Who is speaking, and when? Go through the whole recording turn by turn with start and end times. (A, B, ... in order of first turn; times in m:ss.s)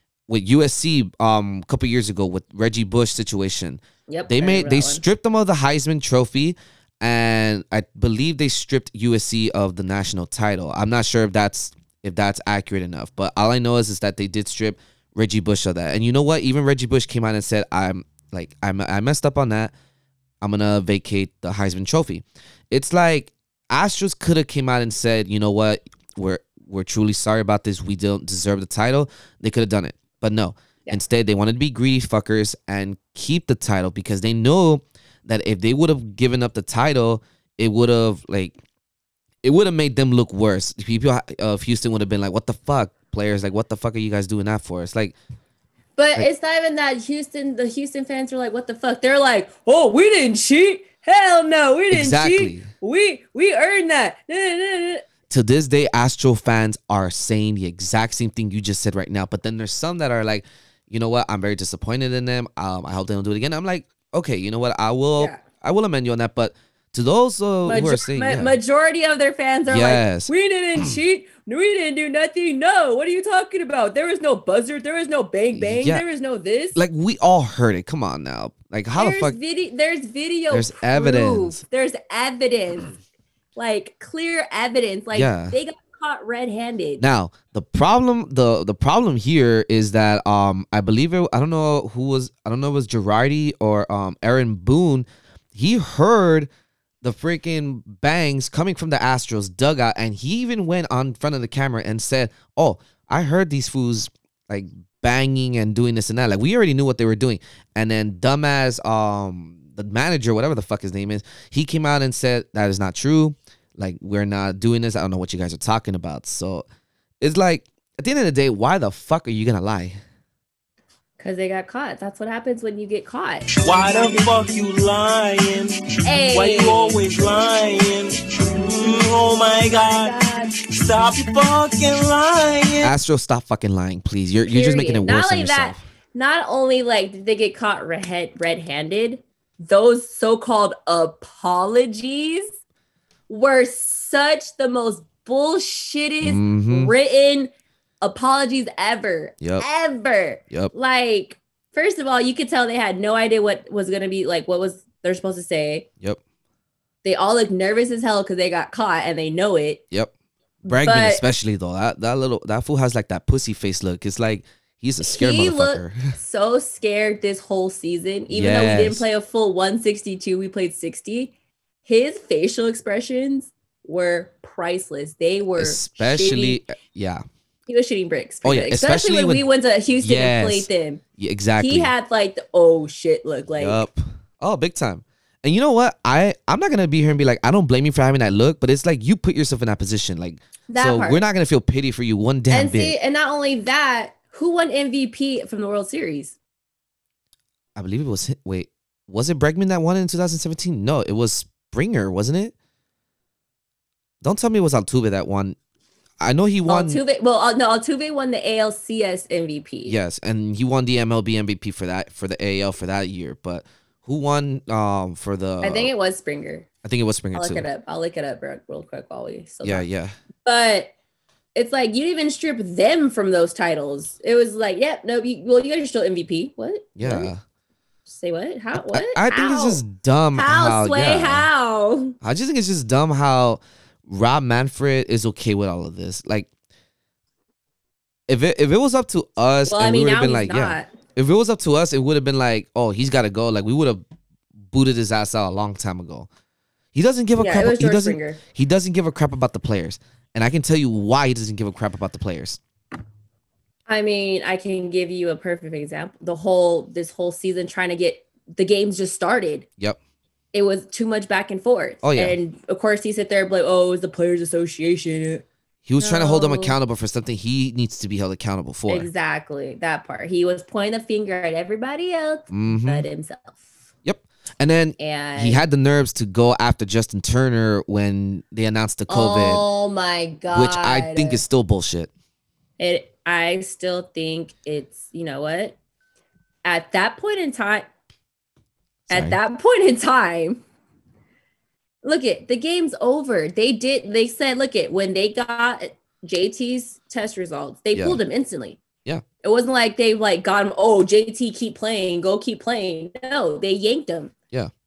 0:00.3-0:19.7 A
0:04.1-0:05.0 B
0:20.4-0:38.6 A
0:39.4-0:45.1 A
0:46.0-0:55.0 B
0:51.9-0:52.7 A
0:55.3-1:08.6 A
1:05.2-1:05.4 B
1:07.6-1:16.8 B
1:09.7-1:11.0 A
1:15.5-1:16.0 A
1:16.8-1:19.4 A
1:18.9-1:22.9 B
1:20.5-1:21.6 A
1:23.6-1:27.0 B
1:25.1-1:25.6 A
1:27.0-1:36.5 A
1:37.0-1:56.6 A
1:57.2-2:00.0 A
2:01.2-2:04.2 B
2:03.6-2:12.9 C
2:06.0-2:07.0 B
2:08.8-2:10.5 B
2:12.8-2:15.8 A
2:14.5-2:22.5 B
2:23.3-2:35.9 B
2:26.2-2:26.9 A
2:37.0-2:39.8 B
2:40.6-2:41.2 B
2:40.6-2:46.1 A
2:45.0-2:51.3 B
2:48.3-2:49.0 A
2:51.8-2:56.6 B
2:55.6-2:57.2 A
2:57.7-3:01.0 B
2:58.4-2:59.5 A
3:00.0-3:01.9 A
3:01.6-3:03.8 B
3:03.6-3:12.9 A
3:10.7-3:11.2 B
3:12.5-3:16.4 B
3:17.8-3:22.5 A
3:24.2-3:25.6 A
3:26.2-3:27.0 A
3:26.7-3:29.9 B
3:29.8-3:35.9 A
3:35.6-3:36.7 B
3:36.8-3:37.6 A
3:37.3-3:39.8 B
3:39.6-3:40.1 A
3:40.4-3:40.9 B
3:41.5-3:47.3 B
3:47.0-3:47.4 A
3:48.1-3:49.8 B
3:48.7-3:51.5 A
3:50.3-3:52.2 B
3:52.2-3:56.5 A
3:58.3-4:04.0 A
3:59.7-4:00.9 B
4:04.7-4:06.3 A
4:06.9-4:12.6 A
4:07.4-4:08.4 B
4:13.9-4:19.6 B
4:20.5-4:25.4 B
4:22.0-4:22.4 A
4:25.8-4:29.1 A
4:26.0-4:26.8 B
4:28.9-4:33.7 B
4:32.5-4:33.0 A
4:34.0-4:39.6 A
4:35.0-4:35.6 B
4:39.1-4:41.4 B
4:40.5-4:42.1 A
4:42.8-4:45.8 B
4:46.6-4:47.9 B
4:49.1-4:49.4 A
4:49.1-4:50.6 B
4:52.0-4:58.8 B
4:57.9-4:58.2 A
4:59.4-5:04.3 B